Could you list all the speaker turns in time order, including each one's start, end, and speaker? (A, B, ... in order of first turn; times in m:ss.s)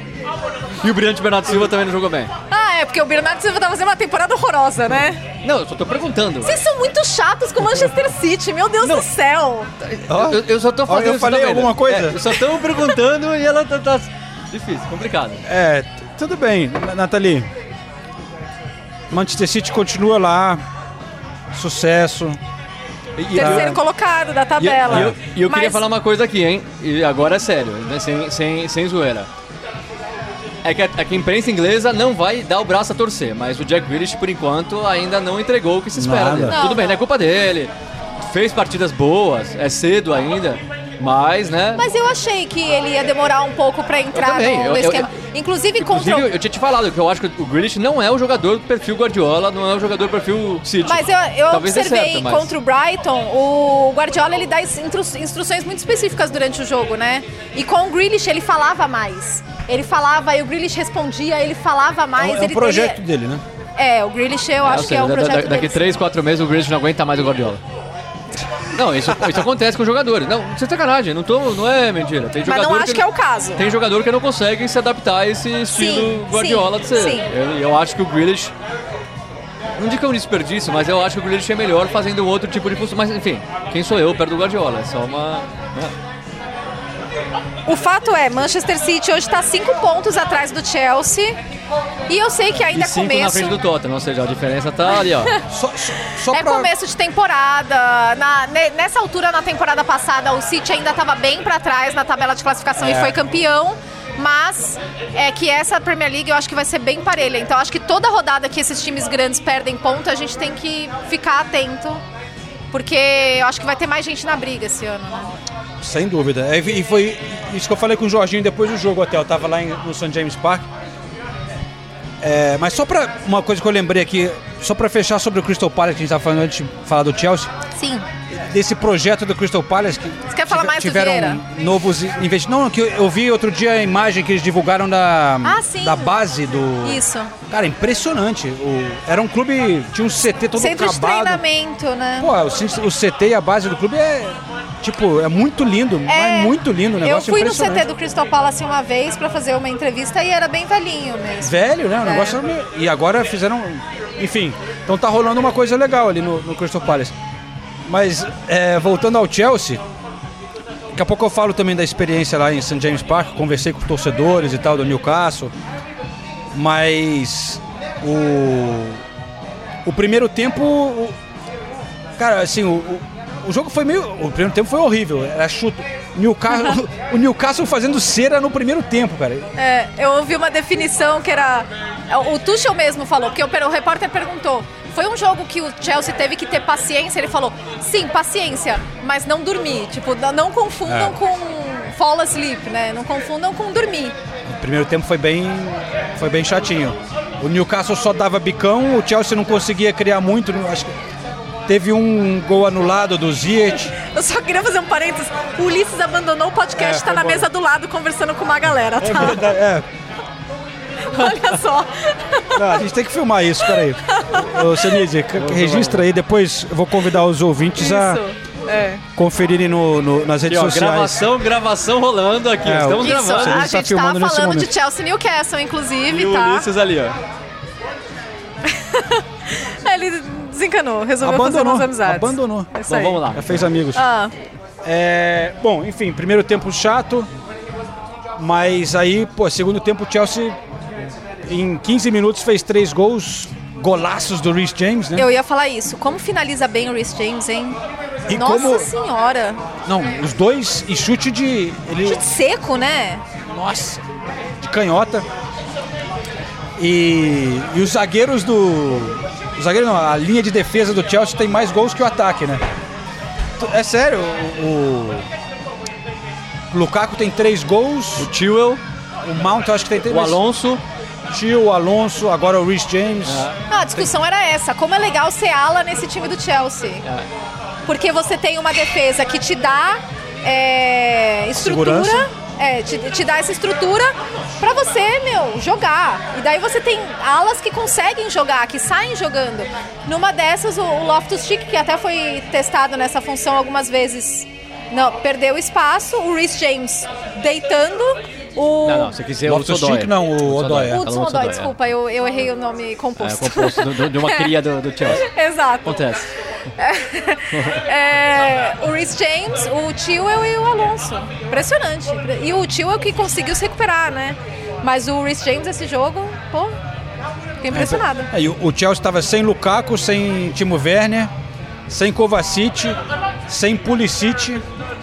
0:00.8-0:02.3 A
0:02.5-0:05.2 B
0:05.4-0:06.6 A
0:06.4-0:09.7 B
0:08.8-0:09.1 A
0:09.8-0:15.4 A
0:10.1-0:12.2 C
0:15.5-0:17.5 C
0:19.1-0:20.6 C
0:21.5-0:22.4 C
0:23.2-0:23.8 A
0:23.3-0:25.8 B
0:23.4-0:23.8 C
0:24.6-0:29.3 A
0:24.9-0:25.2 C
0:30.6-0:41.8 A
0:36.0-0:36.6 C
0:36.5-0:37.0 B
0:41.8-0:46.3 B
0:44.1-0:45.1 A
0:45.8-0:52.5 A
0:50.8-1:03.0 B
1:02.2-1:03.4 C
1:03.8-1:05.9 B
1:04.6-1:07.6 A
1:08.7-1:13.0 A
1:12.5-1:13.7 B
1:13.6-1:18.5 A
1:15.7-1:17.3 B
1:19.8-1:25.9 A
1:27.7-1:31.4 B
1:32.1-1:33.6 B
1:32.6-1:35.3 A
1:35.5-1:36.7 C
1:36.3-1:52.0 B
1:42.8-1:43.2 C
1:52.7-1:55.3 B
1:55.8-2:00.7 C
2:02.2-2:07.5 C
2:07.8-2:08.0 B
2:08.3-2:21.4 C
2:10.3-2:11.4 B
2:15.4-2:16.2 B
2:16.8-2:17.3 B
2:20.6-2:22.3 B
2:22.2-2:27.9 C
2:26.1-2:32.4 B
2:31.4-2:37.1 C
2:37.8-2:39.8 C
2:40.9-2:45.5 C
2:46.5-2:49.0 C
2:49.8-2:51.2 C
2:52.2-2:59.5 C
2:56.5-2:56.8 B
2:59.6-3:14.2 B
3:10.9-3:11.2 C
3:14.5-3:20.9 C
3:21.7-3:24.0 C
3:24.0-3:29.5 B
3:26.8-3:27.5 C
3:29.0-3:29.9 C
3:31.1-3:32.8 B
3:32.6-3:38.2 C
3:33.7-3:35.0 B
3:35.4-3:36.0 A
3:37.8-3:39.0 B
3:39.2-3:41.2 C
3:40.5-3:43.6 A
3:42.6-3:44.7 C
3:43.0-3:46.6 B
3:46.1-3:47.2 A
3:48.7-3:53.3 B
3:51.2-3:52.7 C
3:52.9-3:53.7 A
3:53.3-3:54.0 C
3:54.0-3:54.3 B
3:54.8-3:57.3 C
3:58.4-4:00.6 C
4:01.5-4:05.3 C
4:05.2-4:07.8 B
4:08.3-4:08.9 C
4:08.3-4:09.6 B
4:09.9-4:12.2 C
4:12.0-4:13.2 B
4:13.5-4:14.0 C
4:14.6-4:15.3 C
4:16.8-4:22.6 C
4:23.6-4:25.3 C
4:26.7-4:28.3 C
4:28.2-4:28.8 A
4:29.2-4:30.4 C
4:30.1-4:30.8 A
4:31.3-4:34.1 C
4:33.2-4:33.6 A
4:33.7-4:37.0 B
4:37.9-4:59.2 B
4:41.6-4:42.2 C
4:58.8-5:01.7 A
4:59.4-5:01.0 C
5:00.9-5:04.5 B
5:03.2-5:05.2 A
5:05.1-5:06.1 B
5:05.8-5:06.3 A
5:06.8-5:16.8 B
5:07.5-5:07.8 A
5:17.6-5:18.3 B
5:17.7-5:21.3 C
5:21.9-5:24.6 C